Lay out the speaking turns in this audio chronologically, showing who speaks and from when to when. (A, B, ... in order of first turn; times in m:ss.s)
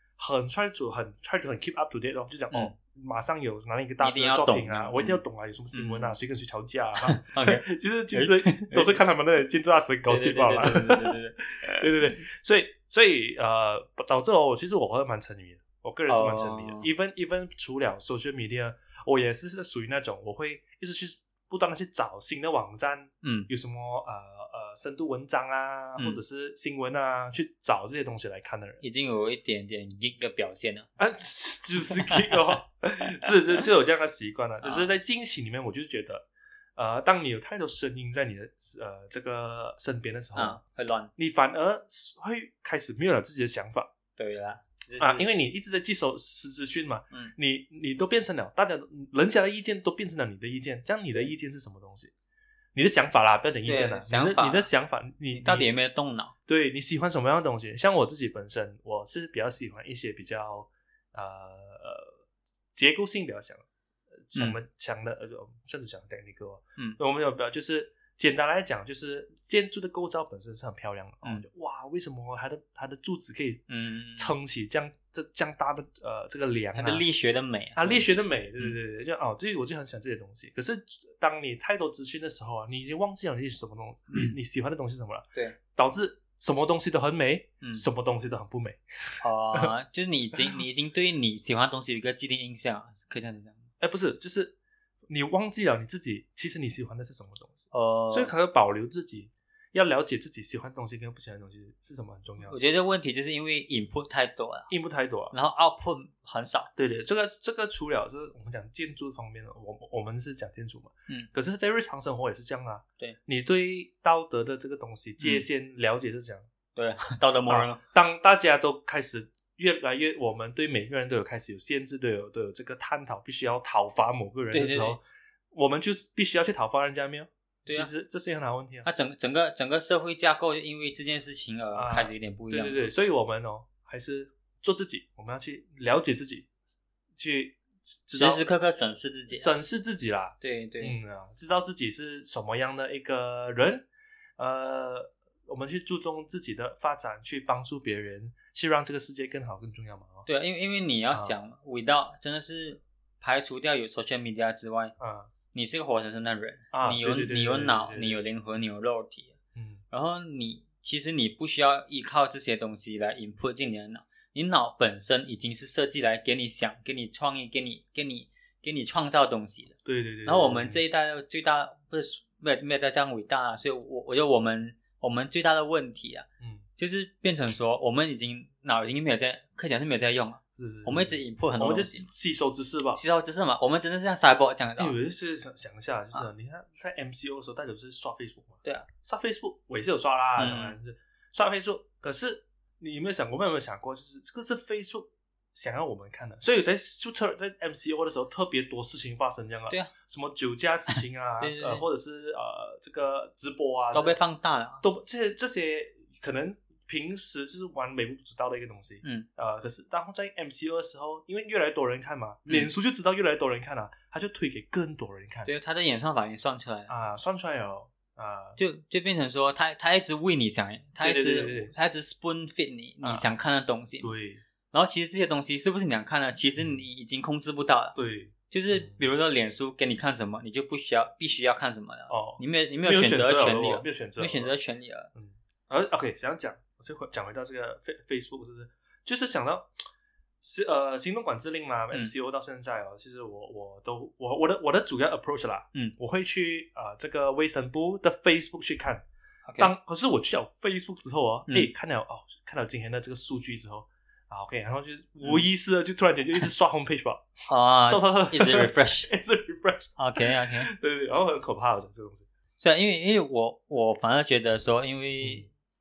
0:00.2-0:28.8 A
0:04.0-0:05.2 B
0:05.7-0:06.2 B
0:07.0-0:09.0 B
0:10.1-0:11.9 B
0:16.1-0:16.9 B
0:23.2-0:23.5 B
0:28.8-0:30.9 B
0:31.0-0:40.6 A
0:32.0-0:32.6 B
0:34.6-0:34.9 B
0:40.4-0:41.1 B
0:41.2-0:43.9 A
0:44.2-0:45.3 B
0:45.0-0:52.1 A
0:52.8-0:55.7 A
0:53.6-0:54.7 B
0:55.3-0:56.3 B
0:56.5-1:02.1 A
1:02.8-1:03.7 A
1:04.3-1:13.6 A
1:13.7-1:14.4 B
1:14.2-1:17.0 A
1:16.8-1:18.0 B
1:17.8-1:29.7 A
1:27.6-1:27.9 B
1:29.2-1:33.6 B
1:33.8-1:34.6 A
1:35.1-1:42.6 A
1:37.7-1:38.3 B
1:42.4-1:44.7 B
1:44.7-1:45.3 A
1:45.3-1:46.7 B
1:46.8-1:56.5 A
1:56.8-1:57.8 B
1:57.5-2:05.0 A
2:04.5-2:05.0 B
2:05.5-2:08.9 A
2:08.8-2:12.9 B
2:11.8-2:16.5 A
2:17.2-2:18.5 A
2:18.1-2:19.5 B
2:19.3-2:23.9 A
2:20.4-2:21.0 B
2:24.4-2:30.3 A
2:30.3-2:34.9 B
2:35.0-2:35.3 A
2:35.5-2:39.4 B
2:36.7-2:38.2 A
2:39.6-2:39.8 A
2:39.9-3:02.1 B
2:49.8-2:50.8 A
3:00.6-3:03.0 A
3:03.0-3:05.0 B
3:04.8-3:24.2 A
3:10.4-3:10.8 B
3:21.4-3:21.8 B
3:23.9-3:24.8 B
3:24.8-3:35.5 A
3:35.5-3:36.9 B
3:36.9-3:38.6 A
3:38.6-3:44.1 B
3:41.0-3:41.7 A
3:43.0-3:43.3 A
3:44.0-3:44.4 A
3:44.7-3:48.0 B
3:46.6-3:46.8 A
3:48.0-3:49.0 A
3:48.5-3:55.1 B
3:52.1-3:54.5 A
3:55.2-3:59.7 A
4:00.4-4:09.0 A
4:09.5-4:09.7 B
4:09.6-4:17.3 A
4:17.5-4:19.1 B
4:17.8-4:20.0 A
4:20.0-4:20.7 B
4:20.6-4:22.3 A
4:22.6-4:25.5 B
4:25.2-4:25.5 A